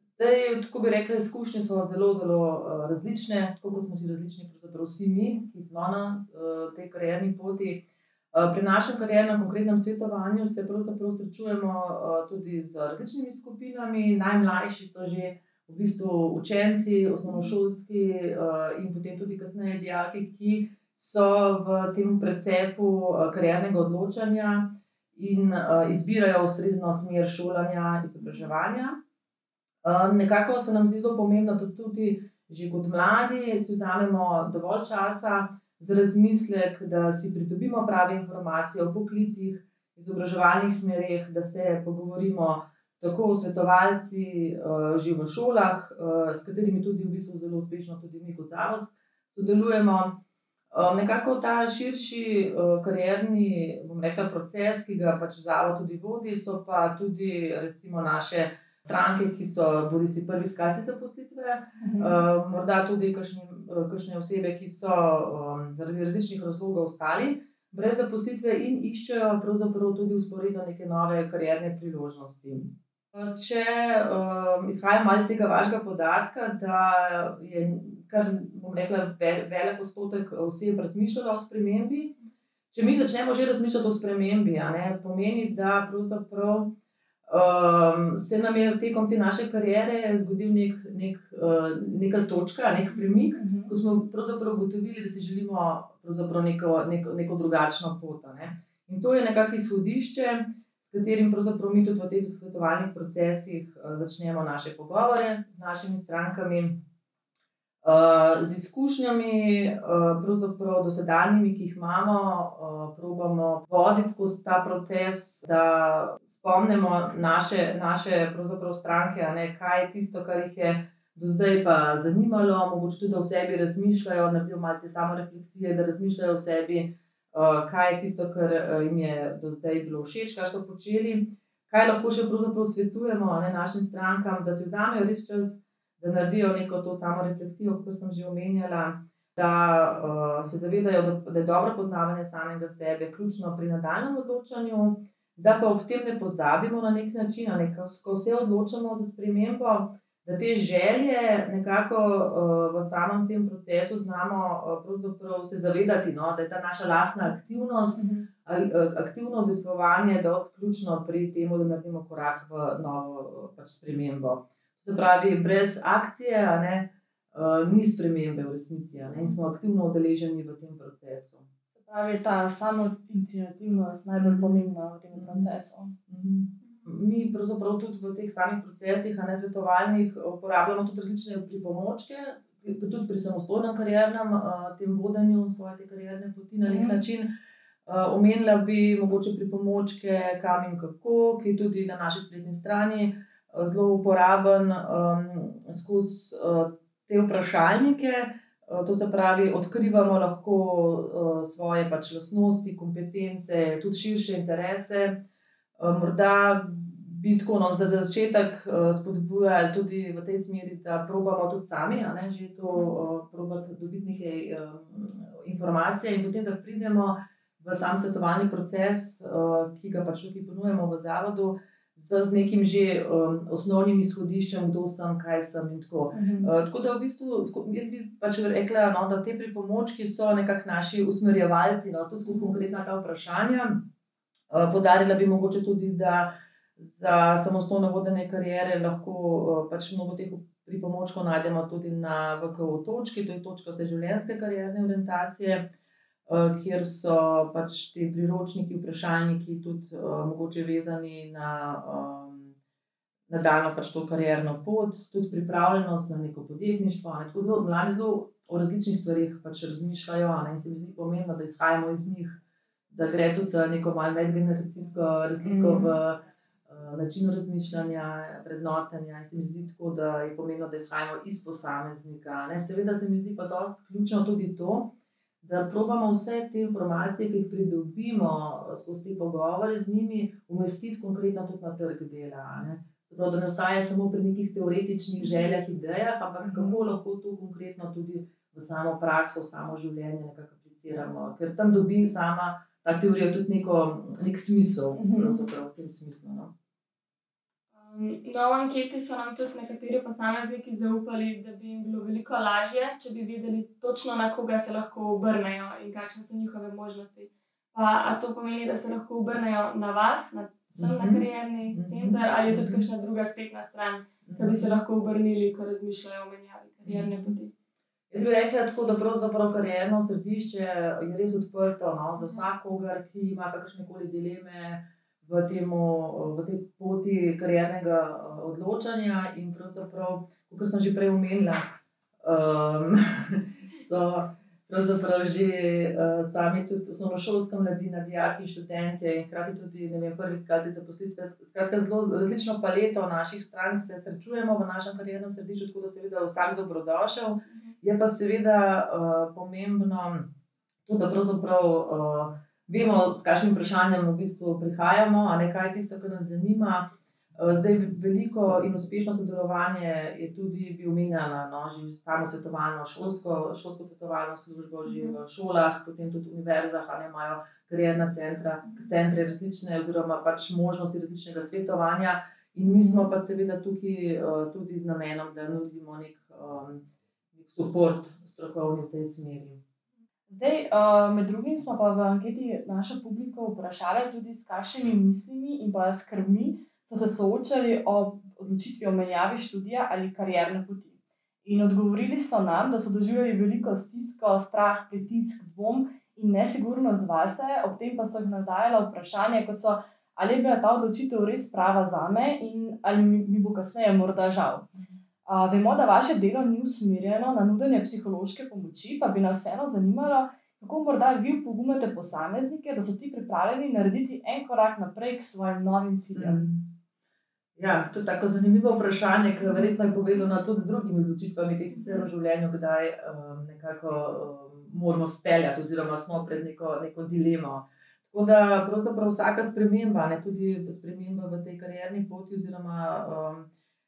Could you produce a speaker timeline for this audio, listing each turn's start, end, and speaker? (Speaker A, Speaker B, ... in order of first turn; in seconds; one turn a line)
Speaker A: 0.2-29.0
Speaker A: 29.8-50.2
Speaker A: 50.7-82.2
Speaker B: 61.8-62.2
Speaker A: 82.7-86.7
Speaker A: 87.3-106.8
Speaker B: 93.3-93.8
Speaker A: 107.8-171.5
Speaker B: 157.9-158.3
Speaker B: 171.8-175.9
Speaker A: 174.2-175.5
Speaker A: 176.1-187.3
Speaker C: 176.6-176.9
Speaker B: 186.6-187.0
Speaker A: 187.9-205.2
Speaker A: 205.8-233.9
Speaker B: 226.1-226.5
Speaker A: 234.5-245.7
Speaker A: 246.3-252.6
Speaker A: 253.3-262.4
Speaker A: 262.9-296.5
Speaker B: 265.4-265.9
Speaker B: 286.4-286.8
Speaker B: 295.0-295.4
Speaker C: 297.8-317.5
Speaker A: 310.8-312.9
Speaker A: 314.2-314.7
Speaker A: 316.8-317.4
Speaker A: 318.1-350.3
Speaker A: 350.9-379.6
Speaker C: 364.9-365.2
Speaker B: 372.7-373.1
Speaker B: 380.3-404.7
Speaker A: 404.8-405.0
Speaker B: 405.2-416.5
Speaker A: 416.1-416.7
Speaker A: 417.6-433.5
Speaker C: 421.7-422.1